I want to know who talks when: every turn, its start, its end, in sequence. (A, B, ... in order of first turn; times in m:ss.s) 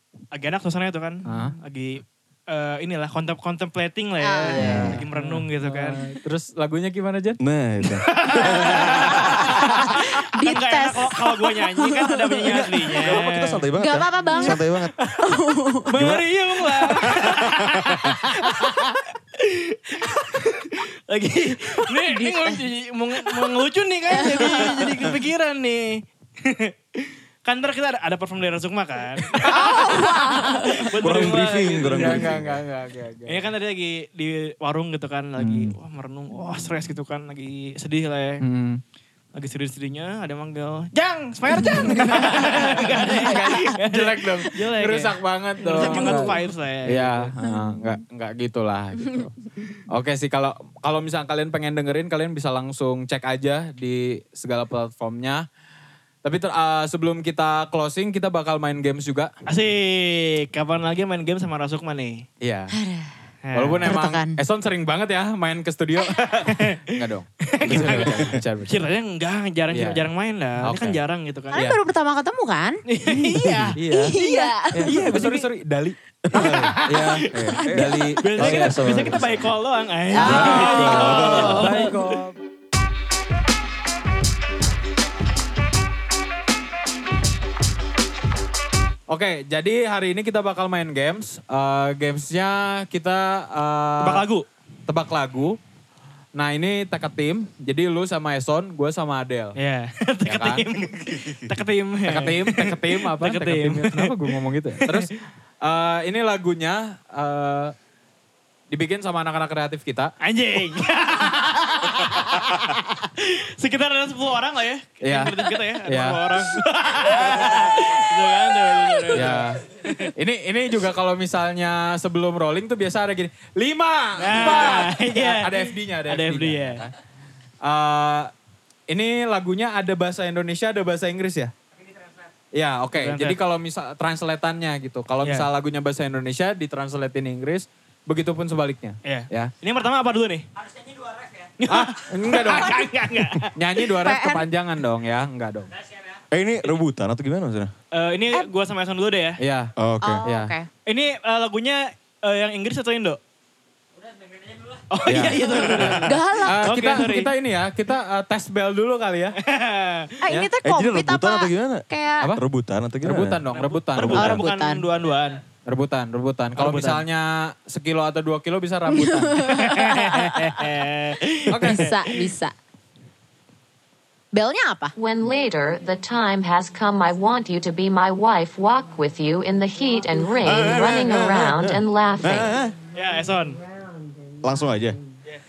0:00.3-0:06.0 A
0:01.2-0:01.6 B
0:04.2-0:04.9 C
0:04.5-0:07.4 B
0:04.6-0:05.0 D
0:07.4-0:10.0 D
0:08.0-0:13.6 A
0:09.6-0:12.2 C
0:12.4-0:15.0 D
0:13.8-0:14.6 C
0:15.2-0:15.9 C
0:15.9-0:32.4 A
0:15.9-0:18.2 D
0:22.0-0:22.5 C
0:24.1-0:24.8 C
0:29.6-0:30.4 D
0:29.7-0:30.9 C
0:30.9-0:32.6 D
0:31.9-0:33.5 B
0:33.3-0:38.4 A
0:35.4-0:35.7 B
0:38.4-0:38.8 B
0:39.4-0:47.3 A
0:41.7-0:42.4 C
0:41.7-0:49.3 B
0:45.8-0:46.4 C
0:47.4-0:48.0 C
0:49.9-0:55.4 B
0:56.2-0:59.3 B
0:59.5-1:02.2 A
1:02.4-1:02.7 B
1:02.7-1:03.1 C
1:03.4-1:04.0 A
1:03.5-1:08.9 B
1:03.8-1:04.4 C
1:06.4-1:06.8 A
1:07.5-1:11.6 A
1:07.6-1:08.4 D
1:09.7-1:10.1 B
1:10.6-1:11.0 B
1:11.5-1:11.8 B
1:11.5-1:12.8 C
1:12.9-1:15.4 A
1:13.3-1:13.7 D
1:13.7-1:14.2 B
1:13.9-1:15.2 C
1:14.7-1:19.2 B
1:16.2-1:17.1 D
1:16.4-1:22.2 A
1:17.6-1:19.6 D
1:20.1-1:21.9 C
1:20.2-1:21.8 D
1:20.2-1:22.4 B
1:29.1-1:34.2 B
1:34.0-1:34.4 A
1:34.9-1:35.6 B
1:36.3-1:39.6 B
1:39.6-1:44.2 A
1:40.2-1:40.7 B
1:42.1-1:47.7 B
1:44.8-1:45.1 A
1:48.7-1:50.1 B
1:50.2-2:00.1 A
1:55.0-1:56.6 B
1:58.7-1:59.0 C
1:59.1-2:06.9 B
2:04.2-2:06.8 A
2:07.6-2:08.3 B
2:08.9-2:11.5 B
2:12.5-2:19.5 B
2:13.0-2:13.4 A
2:19.0-2:20.4 A
2:21.6-2:23.6 A
2:21.6-2:22.9 B
2:23.5-2:25.7 B
2:24.0-2:24.4 C
2:26.3-2:27.7 D
2:27.9-2:29.4 A
2:29.4-2:29.7 B
2:29.8-2:30.2 D
2:30.0-2:30.7 C
2:30.2-2:30.5 B
2:30.8-2:33.2 A
2:34.9-2:37.3 A
2:35.0-2:39.4 B
2:36.0-2:37.1 C
2:39.4-2:40.2 A
2:40.2-2:42.3 C
2:40.6-2:41.8 D
2:42.3-2:43.4 D
2:43.0-2:44.3 B
2:43.5-2:45.4 A
2:43.9-2:44.5 D
2:44.1-2:44.8 C
2:45.6-2:49.6 B
2:46.6-2:47.0 A
2:49.0-2:50.7 C
2:49.5-2:51.9 A
2:51.5-2:52.5 C
2:51.5-2:51.9 B
2:54.3-2:54.9 C
2:55.0-3:02.5 E
3:00.4-3:02.8 D
3:02.9-3:03.6 A
3:04.4-3:05.0 D